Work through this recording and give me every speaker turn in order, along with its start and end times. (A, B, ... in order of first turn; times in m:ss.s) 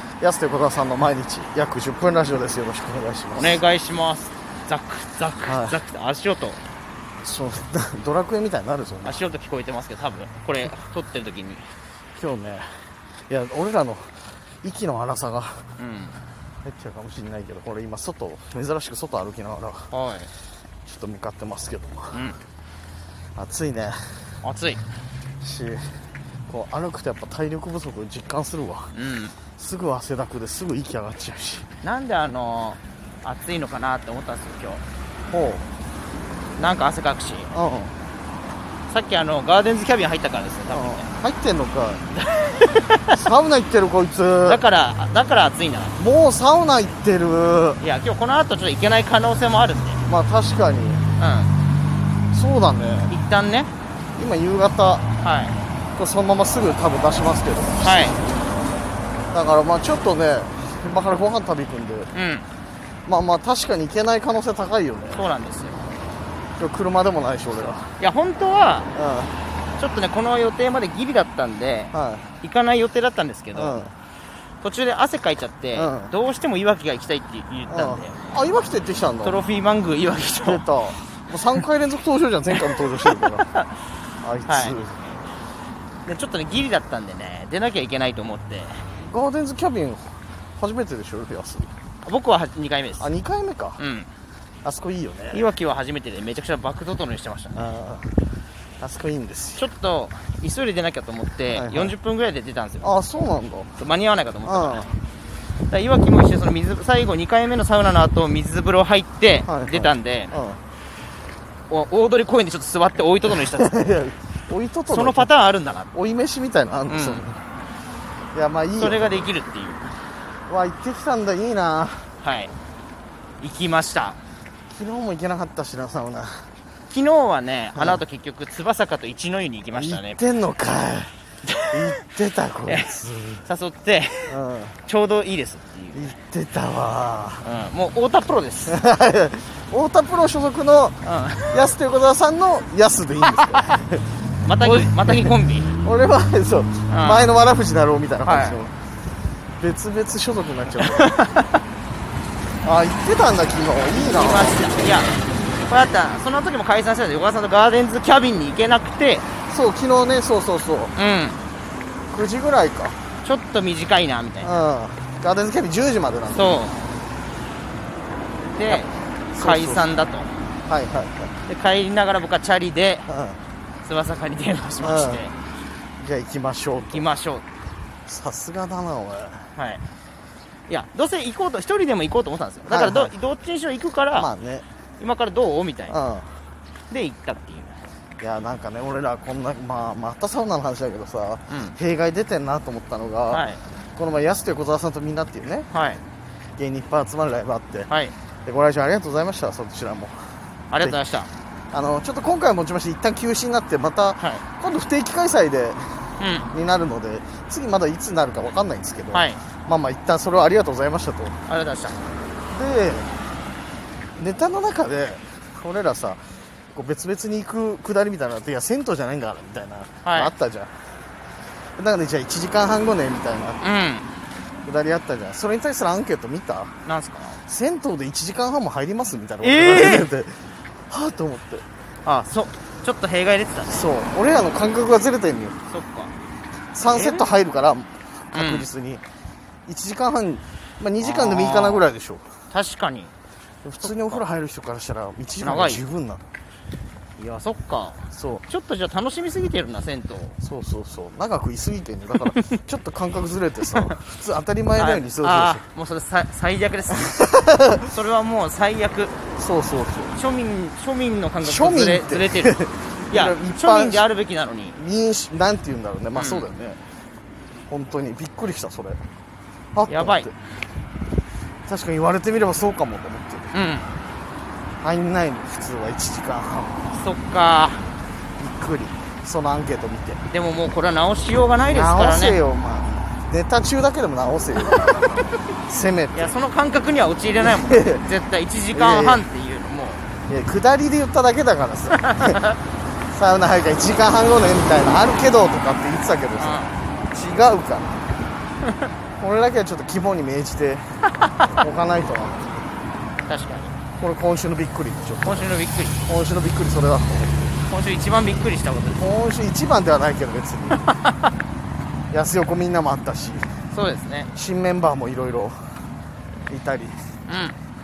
0:00.2-0:03.6 A
0:03.4-0:06.6 B
0:05.4-0:05.8 A
0:07.2-0:09.2 A
0:09.0-0:11.7 B
0:12.1-0:15.7 A
0:15.8-0:16.2 B
0:16.6-0:19.9 A
0:19.9-0:20.3 B
0:20.8-0:22.2 A
0:22.1-0:22.4 B
0:23.4-0:24.3 A
0:24.4-0:24.8 B
0:25.4-0:28.9 A
0:28.9-0:29.4 B
0:29.5-0:31.7 A
0:31.8-0:34.8 B
0:35.3-0:35.6 A
0:36.6-0:37.5 B
0:37.5-0:37.9 A
0:38.9-0:41.1 B
0:40.7-0:42.0 A
0:42.2-0:43.2 B
0:43.1-0:44.6 A
0:44.4-0:46.0 B
0:46.0-0:47.8 A
0:47.8-0:50.0 B
0:50.1-0:51.0 A
0:51.2-0:51.5 B
0:52.3-0:53.1 A
0:53.1-0:53.7 B
0:54.2-0:55.0 A
0:55.2-0:55.6 B
0:55.9-0:58.2 A
0:57.8-0:58.2 B
0:59.3-1:02.1 A
1:02.1-1:02.5 B
1:03.0-1:05.2 A
1:05.1-1:05.8 B
1:06.6-1:08.0 A
1:07.5-1:08.9 B
1:08.9-1:09.3 A
1:09.8-1:13.8 B
1:11.9-1:12.3 A
1:13.5-1:13.9 A
1:14.6-1:18.2 B
1:15.7-1:16.1 A
1:17.7-1:19.4 A
1:19.2-1:20.6 B
1:20.4-1:23.5 A
1:23.1-1:23.6 B
1:24.2-1:25.2 A
1:24.5-1:24.8 B
1:26.0-1:28.8 B
1:29.0-1:31.7 A
1:32.0-1:33.1 B
1:33.0-1:33.8 A
1:33.8-1:34.1 B
1:34.6-1:35.4 A
1:35.3-1:37.6 B
1:37.5-1:38.2 A
1:38.8-1:39.6 A
1:39.6-1:42.9 B
1:41.5-1:41.9 A
1:42.8-1:43.8 A
1:43.8-1:44.9 B
1:44.4-1:45.0 A
1:45.7-1:50.3 B
1:49.5-1:50.6 A
1:51.7-1:53.7 B
1:53.3-1:55.3 A
1:54.9-1:55.9 B
1:55.9-1:57.4 A
1:56.9-1:57.2 B
1:58.3-1:59.3 A
1:58.8-2:00.0 B
2:00.5-2:02.1 A
2:02.2-2:02.5 B
2:03.4-2:04.2 B
2:04.7-2:06.5 A
2:06.9-2:10.2 B
2:07.8-2:08.0 A
2:09.7-2:11.1 A
2:11.4-2:11.8 B
2:11.7-2:13.5 A
2:12.6-2:12.9 B
2:13.4-2:16.2 B
2:14.3-2:14.8 A
2:15.9-2:17.5 A
2:17.4-2:18.8 B
2:18.7-2:21.0 A
2:21.0-2:21.6 B
2:21.5-2:28.8 A
2:24.4-2:25.8 B
2:26.9-2:27.3 B
2:28.2-2:28.6 B
2:29.6-2:31.1 A
2:30.9-2:31.5 B
2:32.6-2:34.7 A
2:34.0-2:39.3 B
2:39.5-2:40.9 A
2:40.9-2:41.4 B
2:42.1-2:43.0 A
2:43.2-2:44.5 B
2:44.4-2:46.6 A
2:46.3-2:46.8 B
2:48.5-2:50.3 B
2:48.7-2:49.9 A
2:50.6-2:51.3 A
2:51.4-2:53.0 B
2:53.1-2:53.4 A
2:53.8-2:55.3 B
2:54.8-2:55.3 A
2:56.0-2:57.1 A
2:56.9-2:57.4 B
2:58.1-2:59.5 A
2:59.5-2:59.8 B
3:00.7-3:04.3 B
3:02.7-3:03.1 A
3:04.1-3:04.6 A
3:05.0-3:06.0 B
3:05.9-3:06.4 A
3:06.9-3:07.8 B
3:08.2-3:13.4 A
3:11.5-3:11.8 B
3:13.3-3:13.6 B
3:14.0-3:15.7 A
3:15.7-3:16.0 B
3:16.6-3:17.9 A
3:17.9-3:18.1 B
3:18.4-3:21.0 A
3:20.7-3:21.3 B
3:21.7-3:31.4 A
3:24.2-3:24.4 B
3:26.2-3:26.5 B
3:29.1-3:29.4 B
3:31.5-3:32.0 B
3:32.5-3:33.1 A
3:34.2-3:40.7 A
3:40.0-3:40.3 B
3:41.8-3:43.6 A
3:43.6-3:44.1 B
3:44.6-3:46.8 A
3:46.8-3:47.4 B
3:47.4-3:50.4 A
3:49.4-3:50.1 B
3:50.9-3:51.6 A
3:52.0-3:53.9 B
3:53.7-3:55.6 A
3:55.7-3:56.1 B
3:56.7-3:59.0 A
3:56.8-3:57.4 B
3:58.3-3:58.7 B
3:59.6-4:02.3 A
4:01.0-4:01.9 B
4:02.5-4:03.1 B
4:03.6-4:06.2 A
4:03.8-4:04.2 B
4:05.4-4:05.8 B
4:07.2-4:10.4 B
4:08.1-4:08.4 A
4:10.4-4:15.6 A
4:14.7-4:17.2 B
4:17.0-4:17.9 A
4:17.8-4:19.2 B
4:19.4-4:20.2 A
4:20.1-4:22.6 B
4:21.4-4:24.0 A
4:23.1-4:24.8 B
4:24.7-4:26.8 A
4:26.1-4:26.5 B
4:27.7-4:29.0 A
4:29.7-4:30.3 A
4:29.9-4:30.3 B
4:31.6-4:33.5 A
4:33.5-4:33.9 B
4:34.8-4:36.9 A
4:36.9-4:37.9 B
4:38.4-4:40.2 A
4:40.3-4:42.4 B
4:41.6-4:46.4 A
4:44.7-4:45.2 B
4:46.1-4:50.0 B
4:47.4-4:48.0 A
4:48.7-4:49.2 A
4:50.3-4:52.4 A
4:52.0-4:52.6 B
4:53.1-4:58.0 A
4:56.4-4:56.7 B
4:59.2-5:02.6 A
5:03.2-5:03.8 B
5:04.0-5:07.6 A
5:05.2-5:06.0 B
5:07.6-5:09.1 B
5:09.0-5:10.9 A
5:12.1-5:13.5 A
5:13.7-5:14.3 B
5:14.3-5:15.7 A
5:16.5-5:17.1 A
5:17.3-5:17.6 B